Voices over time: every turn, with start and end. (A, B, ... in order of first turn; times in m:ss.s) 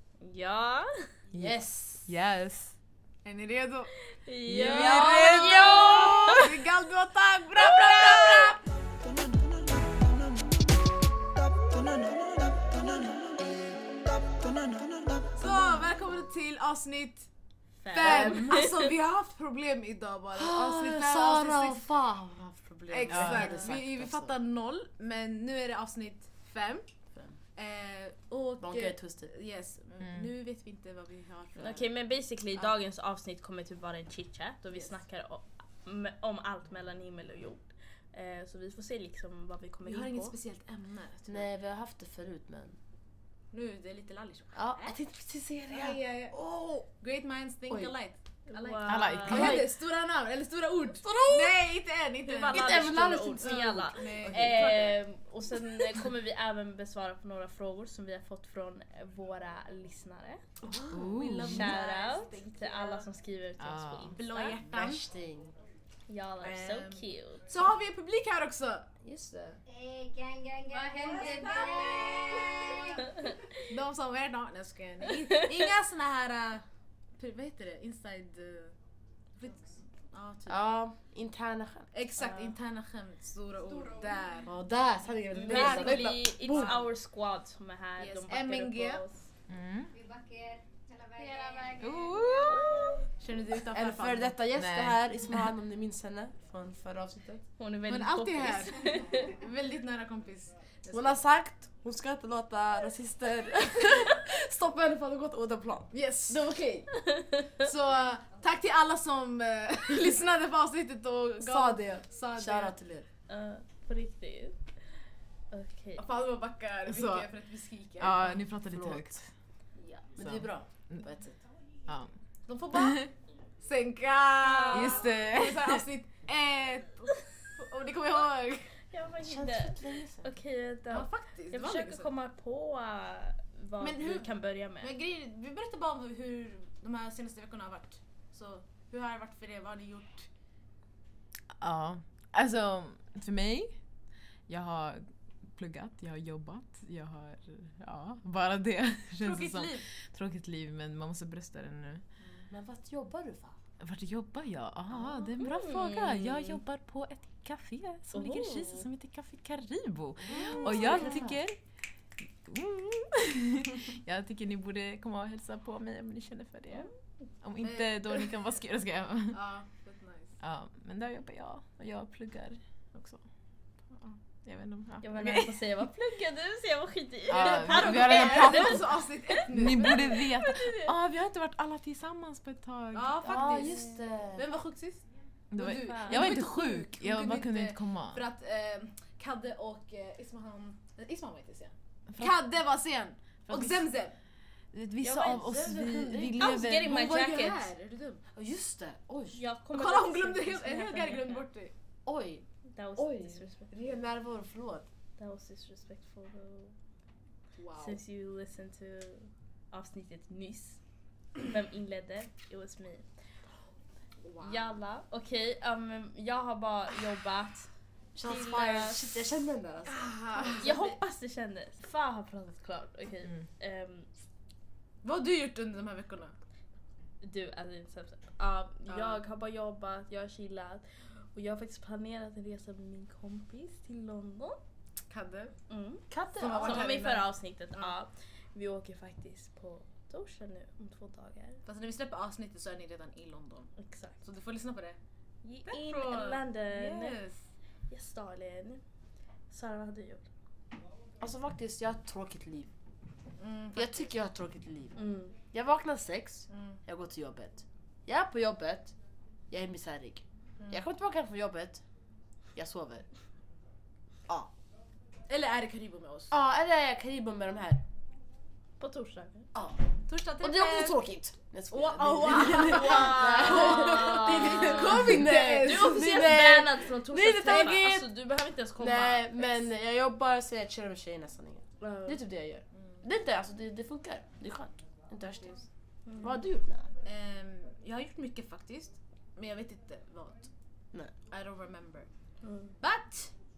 0:00.2-0:01.1 A
0:01.3-0:02.7 B
0:01.4-0:02.1 C
0:03.2-0:03.9 D
0:04.2-0:06.5 A
0:04.5-0:06.4 B
0:04.6-0:05.4 C
0:04.7-0:05.4 D
0:06.3-0:08.6 D
0:07.6-0:08.6 A
0:15.4-0:17.3 D
0:17.8-0:18.8 A
0:17.9-0:21.9 D
0:18.0-0:18.7 C
0:20.4-0:24.4 C
0:22.9-0:26.9 D
0:23.1-0:23.7 B
0:27.6-0:31.9 D
0:28.6-0:29.3 C
0:31.6-0:40.3 A
0:39.9-0:41.5 D
0:41.3-0:42.8 C
0:43.5-0:45.0 D
0:44.6-0:46.9 C
0:45.7-0:46.3 D
0:47.0-0:55.0 D
0:47.7-0:47.9 C
0:48.5-0:49.7 A
0:48.8-0:49.7 B
0:51.0-0:51.6 C
0:52.3-1:00.4 A
0:52.5-0:55.0 C
1:00.7-1:01.1 C
1:00.9-1:01.8 B
1:01.0-1:03.1 D
1:01.4-1:04.6 A
1:03.6-1:04.2 B
1:04.2-1:05.0 D
1:04.7-1:05.5 C
1:06.1-1:07.4 A
1:06.4-1:09.0 D
1:09.0-1:09.6 C
1:09.7-1:13.1 E
1:10.7-1:13.1 D
1:13.7-1:16.6 D
1:17.2-1:18.8 D
1:19.4-1:20.7 D
1:20.5-1:21.9 C
1:21.9-1:24.6 D
1:22.2-1:22.6 A
1:24.5-1:26.8 C
1:25.4-1:29.2 A
1:25.5-1:26.9 D
1:28.0-1:29.0 D
1:29.5-1:29.9 B
1:29.9-1:32.8 E
1:31.2-1:31.9 D
1:31.8-1:33.0 B
1:33.2-1:34.4 D
1:33.7-1:37.4 C
1:34.6-1:35.5 B
1:37.6-1:39.4 A
1:37.9-1:41.2 D
1:40.9-1:46.9 C
1:45.9-1:46.5 D
1:47.0-1:47.6 A
1:47.6-1:52.8 D
1:51.4-1:53.1 C
1:53.3-1:54.6 A
1:55.5-1:56.1 A
1:56.0-1:58.4 D
1:56.9-1:57.3 B
1:58.0-1:59.3 B
1:58.7-1:59.2 C
2:00.1-2:01.4 C
2:00.2-2:01.0 B
2:02.5-2:03.1 D
2:02.7-2:03.1 B
2:03.6-2:08.8 D
2:04.4-2:05.1 A
2:04.7-2:05.8 B
2:08.9-2:14.9 A
2:09.2-2:10.3 C
2:10.9-2:12.1 D
2:13.8-2:20.3 D
2:21.6-2:23.8 B
2:24.5-2:32.0 B
2:29.2-2:29.9 D
2:32.2-2:32.5 D
2:32.5-2:33.6 C
2:33.8-2:41.6 B
2:35.4-2:36.6 A
2:38.1-2:38.9 A
2:40.3-2:41.4 C
2:42.4-2:46.9 B
2:47.4-2:49.4 B
2:47.6-2:48.3 D
2:49.3-2:50.4 D
2:50.4-2:53.2 B
2:54.4-2:55.7 B
2:55.0-2:59.0 A
2:57.3-3:03.2 B
2:57.3-3:00.3 D
2:59.6-3:00.9 A
3:02.9-3:05.0 D
3:03.2-3:04.5 C
3:05.5-3:08.2 B
3:05.5-3:14.2 D
3:05.9-3:06.4 A
3:13.5-3:13.9 B
3:14.7-3:17.0 B
3:15.0-3:15.7 A
3:15.3-3:16.5 C
3:16.4-3:17.7 A
3:16.7-3:18.2 D
3:18.3-3:19.4 C
3:19.3-3:21.4 A
3:19.7-3:21.7 D
3:22.0-3:24.9 C
3:22.7-3:23.9 A
3:25.2-3:26.7 A
3:27.6-3:28.0 D
3:27.8-3:30.8 A
3:31.4-3:33.0 A
3:34.2-3:34.8 D
3:34.4-3:37.7 A
3:38.2-3:40.8 C
3:38.2-3:39.1 A
3:39.9-3:41.0 D
3:40.6-3:44.1 A
3:45.0-3:46.3 D
3:47.2-3:54.6 A
3:48.9-3:49.2 D
3:55.1-3:55.5 D
3:55.7-4:01.6 A
3:56.1-3:57.0 C
3:56.4-3:57.9 D
4:01.6-4:03.7 D
4:03.8-4:04.2 A
4:04.2-4:05.0 D
4:05.4-4:07.2 A
4:05.7-4:07.4 D
4:07.9-4:08.8 A
4:09.5-4:10.3 A
4:11.2-4:12.7 C
4:13.4-4:14.1 D
4:13.8-4:15.0 C
4:15.0-4:15.4 A
4:15.5-4:18.9 C
4:16.5-4:16.8 D
4:19.5-4:21.8 C
4:20.6-4:20.8 D
4:22.6-4:23.1 C
4:25.3-4:26.3 D
4:26.3-4:27.8 C
4:28.8-4:29.5 A
4:29.5-4:29.8 C
4:30.1-4:31.0 D
4:30.4-4:38.1 C
4:31.7-4:36.4 D
4:32.5-4:39.7 A
4:38.8-4:45.6 C
4:41.8-4:42.2 A
4:46.1-4:46.4 A
4:46.2-4:46.9 C
4:47.0-4:50.5 D
4:51.3-4:52.1 D
4:52.4-4:52.8 A
4:52.8-4:53.3 D